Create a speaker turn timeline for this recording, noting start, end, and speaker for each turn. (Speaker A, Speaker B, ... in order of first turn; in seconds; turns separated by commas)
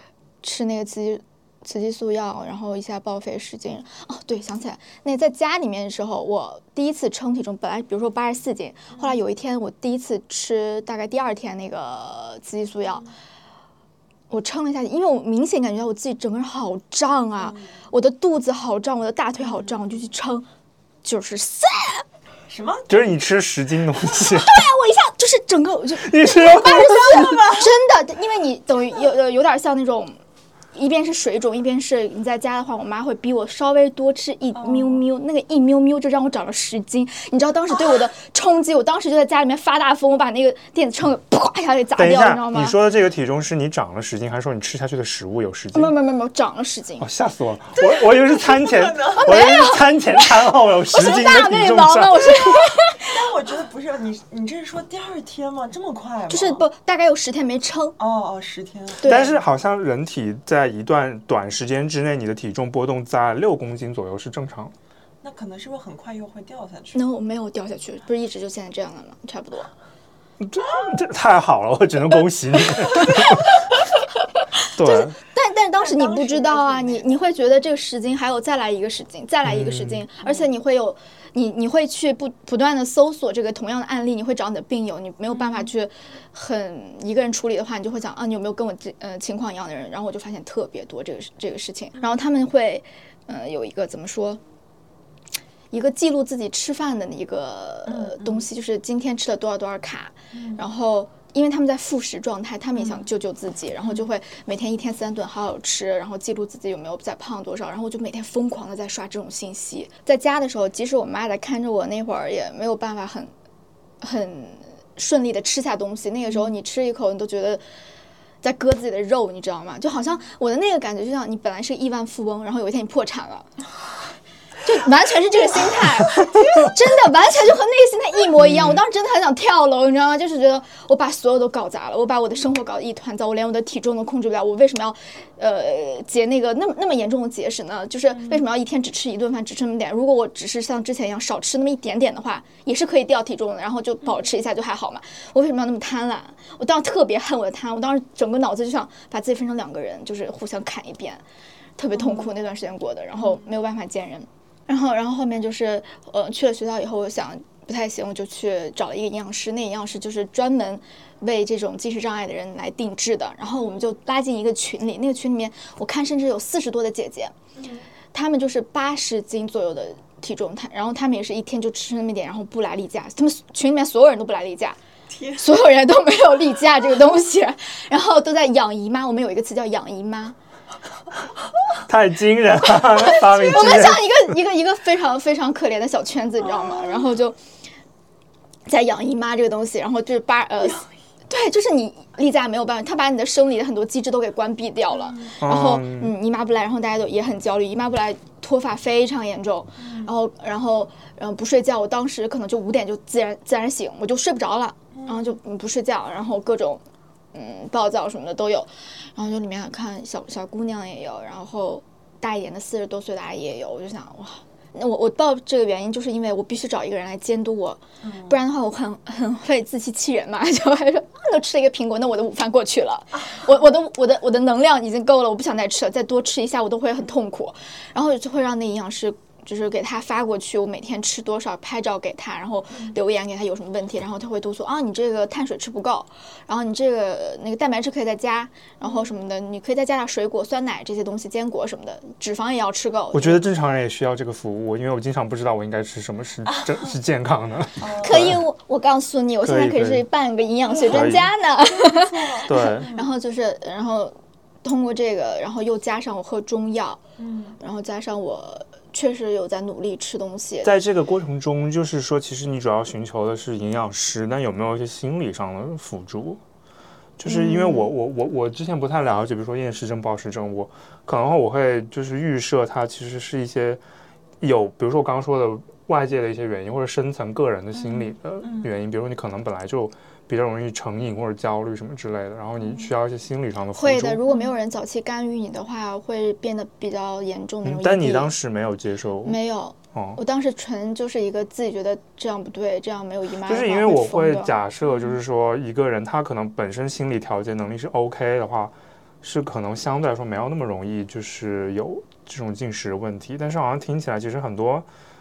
Speaker A: 0.4-13.1, Speaker B: 8.9-9.2, Speaker A: 14.3-20.5, Speaker B: 17.4-17.8, Speaker B: 19.5-19.8, Speaker A: 21.0-22.0, Speaker B: 22.5-23.1, Speaker C: 22.9-24.6, Speaker A: 24.3-30.1, Speaker C: 26.0-27.4, Speaker B: 26.5-27.7, Speaker A: 30.7-42.8, Speaker B: 34.5-35.0, Speaker C: 42.0-45.9, Speaker A: 45.7-47.1, Speaker C: 47.0-52.6, Speaker B: 47.8-49.3, Speaker A: 49.0-53.2, Speaker B: 53.0-56.6, Speaker A: 56.3-58.0, Speaker B: 58.0-59.2, Speaker A: 59.0-59.4, Speaker C: 59.0-64.7, Speaker B: 65.2-67.0, Speaker A: 66.9-69.7, Speaker C: 70.4-73.6, Speaker C: 74.7-75.2, Speaker A: 74.8-94.4, Speaker B: 75.8-77.2, Speaker C: 79.4-80.0, Speaker B: 80.2-80.5, Speaker B: 85.4-85.6, Speaker A: 95.7-113.3, Speaker B: 97.8-98.5, Speaker B: 100.3-100.6, Speaker B: 102.8-103.1, Speaker A: 114.0-117.6, Speaker A: 118.4-123.5, Speaker A: 124.6-151.2, Speaker C: 128.4-128.8, Speaker A: 151.8-167.3, Speaker B: 151.9-152.3, Speaker B: 167.6-167.8, Speaker A: 168.1-174.8, Speaker B: 175.1-175.5, Speaker A: 175.3-180.3, Speaker C: 181.8-184.1, Speaker A: 182.9-187.4, Speaker B: 186.4-187.1, Speaker A: 188.7-206.8, Speaker B: 194.9-195.3, Speaker C: 195.4-196.1, Speaker B: 199.8-200.1, Speaker B: 204.9-205.3, Speaker A: 207.3-243.4, Speaker B: 218.0-218.4, Speaker B: 238.8-239.1, Speaker C: 243.1-248.4, Speaker B: 247.8-248.3, Speaker A: 248.0-257.0, Speaker C: 249.4-250.0, Speaker B: 250.7-253.1, Speaker C: 250.9-251.3, Speaker C: 252.4-252.9, Speaker B: 257.2-257.6, Speaker A: 257.6-260.7, Speaker C: 260.6-266.4, Speaker C: 267.2-273.8, Speaker B: 267.3-267.9, Speaker C: 274.4-284.2, Speaker B: 277.8-278.7, Speaker B: 282.6-282.9, Speaker A: 283.7-288.3, Speaker B: 284.3-284.5, Speaker C: 287.6-289.4, Speaker A: 289.2-294.6, Speaker C: 289.9-290.2, Speaker C: 293.4-304.9